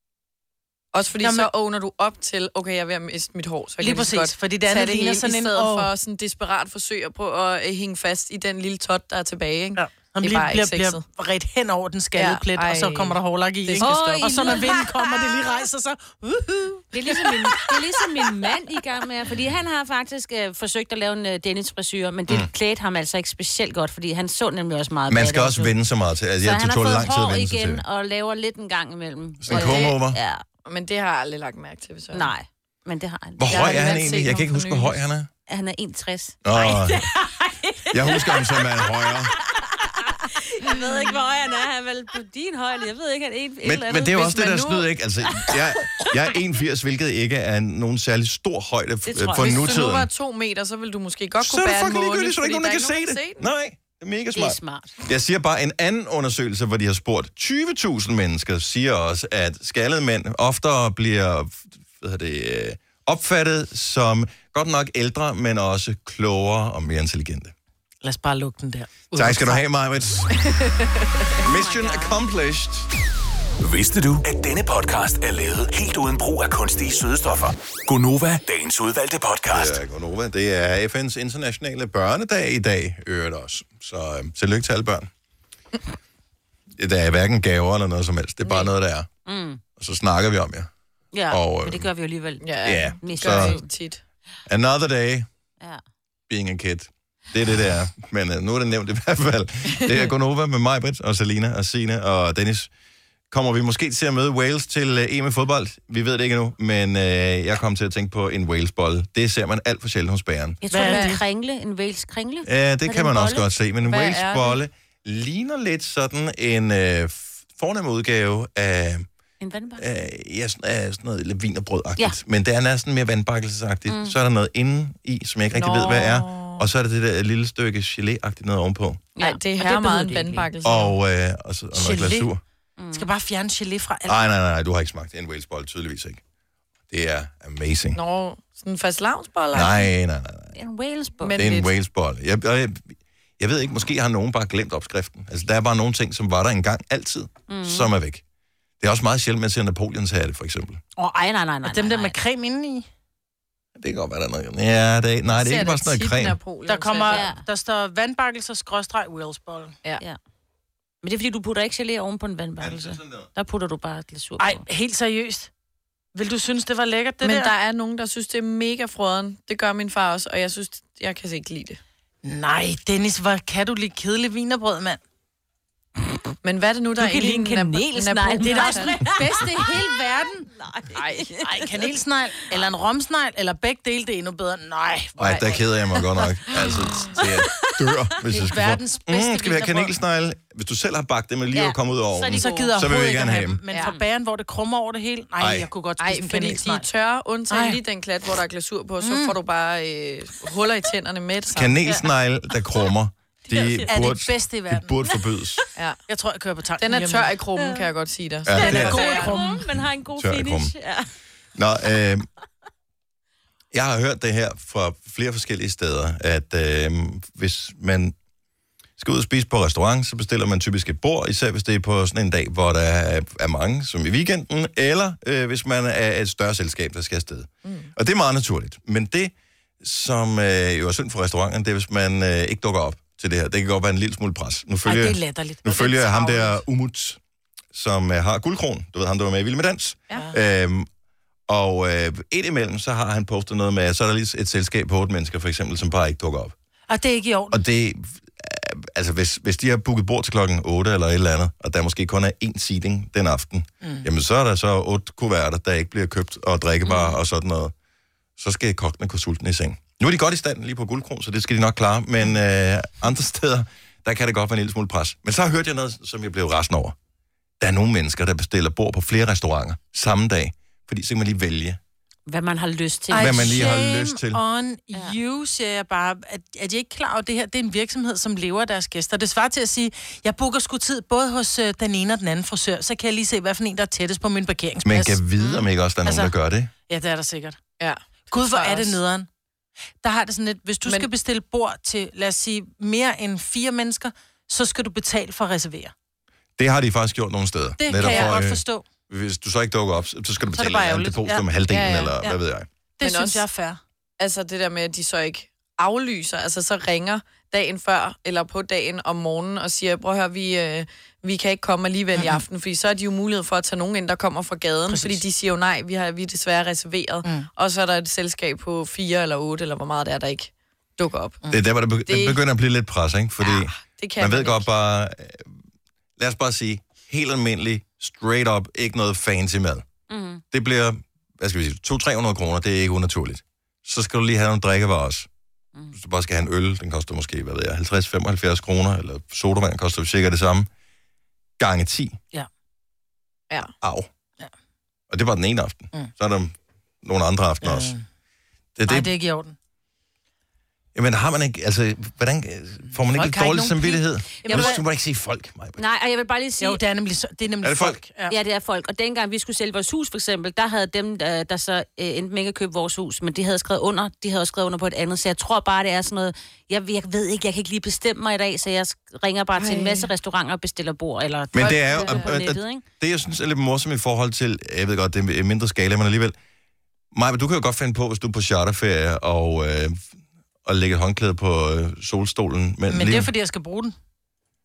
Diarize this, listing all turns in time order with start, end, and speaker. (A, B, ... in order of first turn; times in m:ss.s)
0:00.9-0:11.0 A
0:01.2-0:01.5 B
0:03.8-0:05.9 B
0:09.8-0:17.8 B
0:12.2-0:14.6 A
0:13.8-0:15.4 C
0:16.9-0:25.7 C
0:25.1-0:27.8 D
0:26.4-0:30.4 C
0:29.4-0:30.2 D
0:29.5-0:29.9 A
0:30.7-0:32.3 A
0:32.1-0:34.1 C
0:33.4-0:35.3 D
0:33.5-0:35.0 A
0:35.5-0:44.6 C
0:36.4-0:37.1 D
0:37.9-0:39.3 D
0:43.6-0:50.1 D
0:44.2-0:44.8 A
0:45.5-0:46.1 C
0:49.1-0:49.8 C
0:49.4-0:53.4 A
0:51.4-1:07.5 D
0:54.3-0:55.0 C
1:08.0-1:09.6 B
1:09.1-1:10.3 D
1:10.5-1:11.4 A
1:11.4-1:12.3 C
1:11.4-1:12.9 D
1:13.6-1:19.8 E
1:19.5-1:25.1 D
1:26.8-1:29.1 D
1:29.3-1:29.6 C
1:29.8-1:30.7 D
1:31.1-1:33.6 C
1:31.3-1:31.9 D
1:32.4-1:34.0 A
1:32.6-1:33.6 D
1:34.5-1:35.3 D
1:36.3-1:42.7 D
1:43.3-1:50.6 D
1:50.6-1:53.5 C
1:50.7-1:51.2 B
1:50.9-1:51.1 A
1:52.4-1:59.1 D
1:53.8-1:54.6 A
1:59.4-1:59.9 C
1:59.8-2:09.0 D
2:03.9-2:04.2 C
2:05.6-2:06.7 A
2:09.2-2:10.5 C
2:09.2-2:11.0 A
2:10.6-2:12.4 D
2:11.8-2:12.3 B
2:12.8-2:13.1 C
2:12.9-2:14.2 B
2:14.1-2:16.2 D
2:16.9-2:18.0 D
2:18.0-2:19.9 A
2:19.5-2:20.6 D
2:20.6-2:21.4 C
2:21.2-2:21.7 A
2:21.4-2:28.2 D
2:27.5-2:27.9 C
2:28.8-2:30.8 D
2:31.1-2:32.2 C
2:31.6-2:32.9 B
2:33.8-2:36.4 D
2:35.3-2:37.2 A
2:36.7-2:39.8 B
2:37.1-2:37.4 C
2:41.0-2:44.6 C
2:42.6-2:43.3 D
2:44.4-2:45.5 B
2:46.2-2:47.5 B
2:47.2-2:51.8 A
2:52.2-2:55.0 B
2:56.4-2:58.9 A
2:57.0-2:57.7 B
2:57.3-2:59.9 C
2:58.4-3:00.5 B
3:00.5-3:01.8 C
3:01.0-3:01.3 A
3:01.4-3:05.6 B
3:05.2-3:13.6 D
3:08.3-3:09.9 B
3:11.5-3:12.7 C
3:12.3-3:16.9 B
3:13.8-3:14.1 C
3:15.4-3:15.7 D
3:16.0-3:21.8 A
3:17.5-3:17.8 B
3:19.0-3:19.4 B
3:21.5-3:25.6 D
3:23.5-3:24.0 C
3:23.9-3:24.9 B
3:26.1-3:27.3 B
3:26.8-3:29.4 A
3:28.4-3:29.0 D
3:28.6-3:29.6 B
3:28.6-3:31.1 C
3:30.2-3:30.7 D
3:31.6-3:32.3 D
3:33.7-3:38.1 D
3:39.0-3:57.2 D
3:47.6-3:47.9 A
3:54.8-3:56.6 B
3:57.7-4:00.9 D
4:01.5-4:06.5 D
4:06.9-4:07.6 B
4:07.5-4:17.7 D
4:16.9-4:17.2 C
4:18.4-4:27.0 D
4:27.6-4:31.8 D
4:32.3-4:33.7 C
4:33.1-4:45.2 B
4:33.2-4:34.4 D
4:44.8-4:46.7 D
4:46.0-4:46.3 B
4:46.9-4:47.6 B
4:47.8-4:49.0 A
4:48.3-4:49.3 B
4:50.0-4:55.9 B
4:56.6-5:02.7 D
4:57.8-4:58.8 B
4:58.0-4:58.4 A
5:00.5-5:01.5 B
5:01.7-5:02.2 A
5:03.0-5:03.8 B
5:03.0-5:03.4 A
5:04.2-5:21.4 A
5:12.2-5:12.4 B
5:14.9-5:15.2 B
5:21.5-5:25.5 D
5:22.1-5:22.4 A
5:23.4-5:24.7 A
5:26.2-5:29.8 D
5:30.1-5:30.4 C
5:30.5-5:35.3 D
5:35.9-5:40.7 D
5:41.6-5:42.2 D
5:43.8-5:44.1 D
5:45.1-5:47.9 D
5:47.6-5:48.0 B
5:48.8-5:49.1 D
5:48.9-5:49.6 B
5:51.0-5:55.8 D
5:53.1-5:54.8 B
5:54.4-5:54.8 C
5:55.8-5:56.8 C
5:56.6-5:58.4 B
5:57.6-5:58.0 D
5:58.3-6:12.8 C
6:09.6-6:10.1 A
6:11.5-6:16.4 D
6:11.6-6:12.3 A
6:17.1-6:20.1 D
6:20.6-6:23.3 D
6:22.9-6:24.0 B